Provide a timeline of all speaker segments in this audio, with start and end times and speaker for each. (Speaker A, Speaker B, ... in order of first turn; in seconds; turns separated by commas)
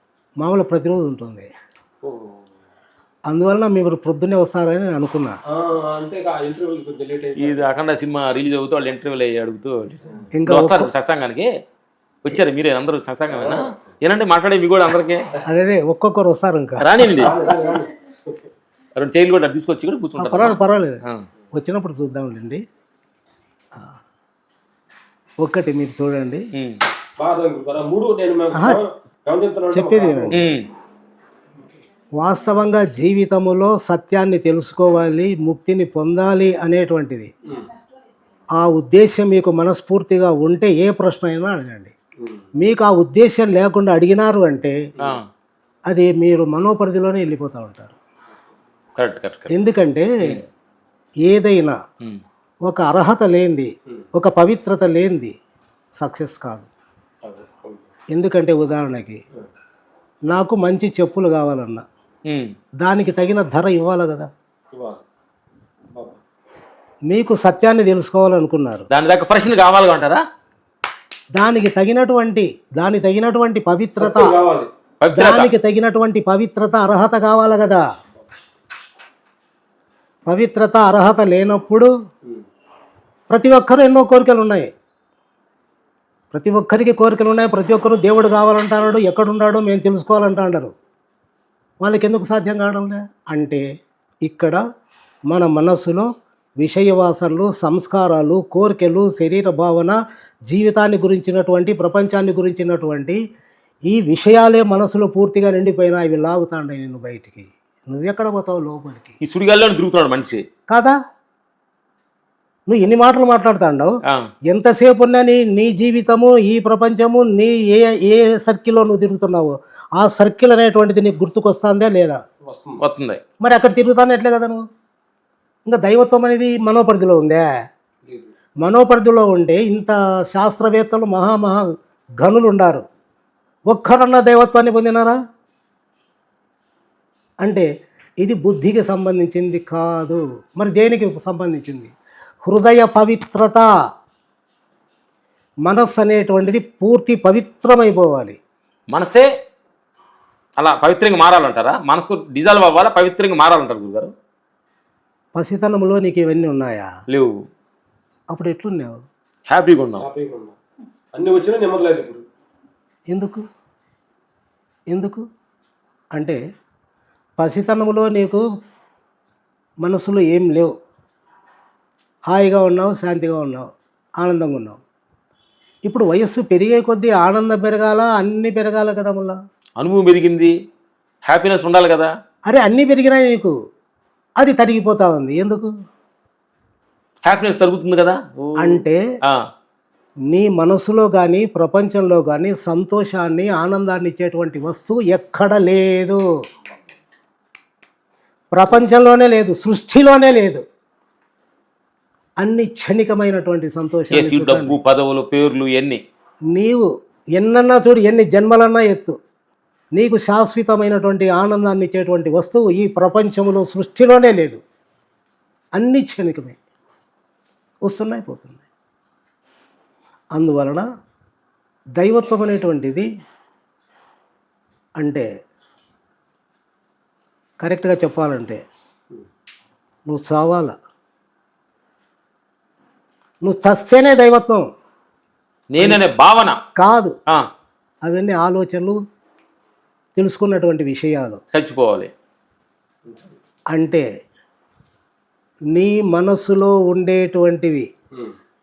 Speaker A: 0.4-1.5, Speaker B: 2.0-2.4, Speaker A: 3.3-5.4, Speaker B: 5.5-7.6, Speaker C: 7.4-11.5, Speaker A: 10.3-10.9, Speaker C: 12.2-15.3, Speaker B: 13.3-13.8, Speaker A: 15.4-17.4, Speaker C: 16.8-17.3, Speaker B: 17.1-18.5, Speaker C: 18.9-21.3, Speaker A: 20.2-21.0, Speaker A: 21.5-22.6, Speaker A: 25.4-26.4, Speaker C: 26.5-26.8, Speaker B: 27.2-30.4, Speaker A: 28.5-28.8, Speaker A: 29.7-30.4, Speaker C: 30.3-30.7, Speaker A: 32.2-37.3, Speaker A: 38.6-41.9, Speaker B: 42.2-42.5, Speaker A: 42.6-44.8, Speaker C: 45.0-45.3, Speaker A: 45.9-48.0, Speaker C: 49.0-49.5, Speaker A: 49.5-50.3, Speaker A: 51.2-51.8, Speaker A: 52.6-55.3, Speaker A: 56.0-56.7, Speaker B: 57.2-57.9, Speaker A: 58.1-59.2, Speaker A: 60.3-61.8, Speaker C: 62.3-62.5, Speaker A: 62.8-64.3, Speaker B: 64.7-65.0, Speaker A: 67.1-68.9, Speaker C: 68.9-70.2, Speaker A: 71.3-74.3, Speaker B: 74.0-74.7, Speaker C: 75.0-75.5, Speaker A: 75.1-77.8, Speaker A: 80.3-81.9, Speaker A: 83.3-84.7, Speaker A: 86.3-90.7, Speaker A: 91.8-93.7, Speaker A: 94.2-94.6, Speaker A: 95.3-96.1, Speaker A: 96.6-103.2, Speaker A: 103.9-109.2, Speaker C: 109.2-110.4, Speaker A: 110.7-111.0, Speaker A: 112.7-113.9, Speaker A: 114.5-122.2, Speaker B: 122.4-122.8, Speaker C: 122.8-123.2, Speaker A: 123.4-124.6, Speaker A: 125.7-127.5, Speaker A: 128.6-132.8, Speaker A: 133.7-135.2, Speaker A: 137.4-137.7, Speaker A: 138.2-141.9, Speaker A: 142.4-143.7, Speaker A: 145.7-148.4, Speaker C: 148.9-149.3, Speaker C: 150.6-154.1, Speaker A: 155.3-156.9, Speaker C: 157.1-157.4, Speaker A: 158.3-159.0, Speaker C: 159.5-160.1, Speaker B: 160.0-160.6, Speaker B: 161.1-162.2, Speaker A: 163.1-163.4, Speaker A: 164.9-165.2, Speaker A: 167.4-168.5, Speaker A: 169.8-170.7, Speaker A: 172.3-174.8, Speaker A: 175.8-179.4, Speaker C: 179.8-180.5, Speaker C: 181.2-182.1, Speaker A: 182.5-183.5, Speaker A: 184.4-185.7, Speaker C: 187.2-189.5, Speaker A: 188.6-189.0, Speaker A: 190.3-196.2, Speaker A: 198.5-200.6, Speaker A: 202.4-204.8, Speaker C: 204.1-206.0, Speaker A: 206.5-209.2, Speaker A: 209.9-214.6, Speaker A: 215.8-216.6, Speaker A: 217.9-218.6, Speaker A: 220.3-220.9, Speaker A: 222.0-223.1, Speaker A: 225.0-225.3, Speaker A: 227.6-228.6, Speaker A: 230.1-230.7, Speaker A: 233.4-234.7, Speaker C: 235.7-236.6, Speaker A: 236.8-237.2, Speaker A: 238.0-239.0, Speaker A: 240.2-241.4, Speaker C: 241.5-242.1, Speaker B: 243.1-243.3, Speaker A: 243.7-244.1, Speaker A: 245.7-247.9